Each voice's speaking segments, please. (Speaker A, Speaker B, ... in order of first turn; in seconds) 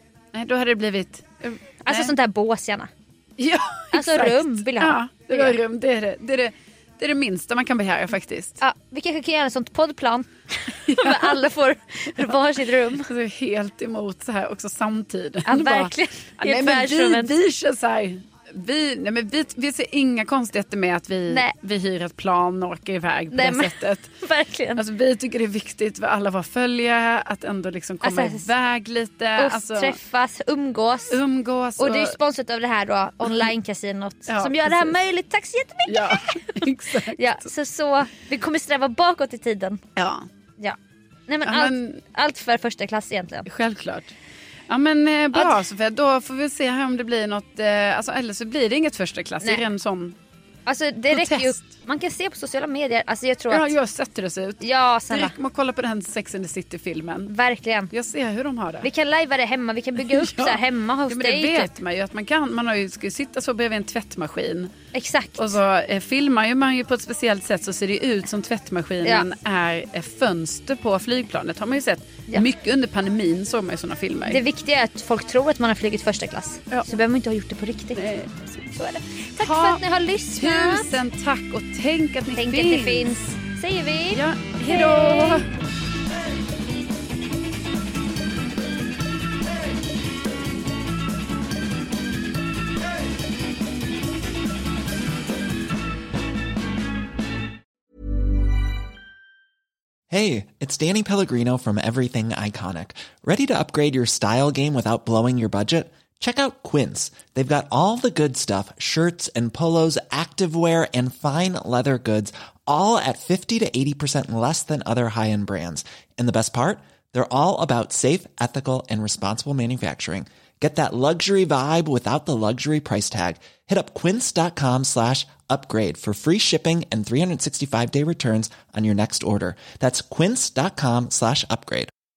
Speaker A: 0.3-2.1, 3.4-8.6, 10.9-11.4, 13.1-24.1, 24.8-30.0, 31.1-32.2, 34.3-35.0, 35.9-37.5, 40.0-40.2, 41.4-42.0, 43.5-44.1, 44.7-50.1, 51.1-51.6, 53.5-57.3, 57.9-58.9, 60.0-64.7, 65.3-74.4, 77.9-78.7, 79.4-79.8, 80.3-83.1, 84.1-85.4
Speaker B: 1.8-2.9, 3.9-5.5, 8.6-13.1, 15.4-17.3, 23.3-24.8, 28.0-28.5, 29.4-31.2, 31.8-36.4, 37.1-39.8, 41.3-43.5, 45.3-45.6, 50.6-53.7, 54.6-55.3, 57.3-57.9, 58.8-61.7, 64.9-65.5, 74.2-78.0, 78.7-81.0, 82.3-85.4
Speaker C: 100.1-131.9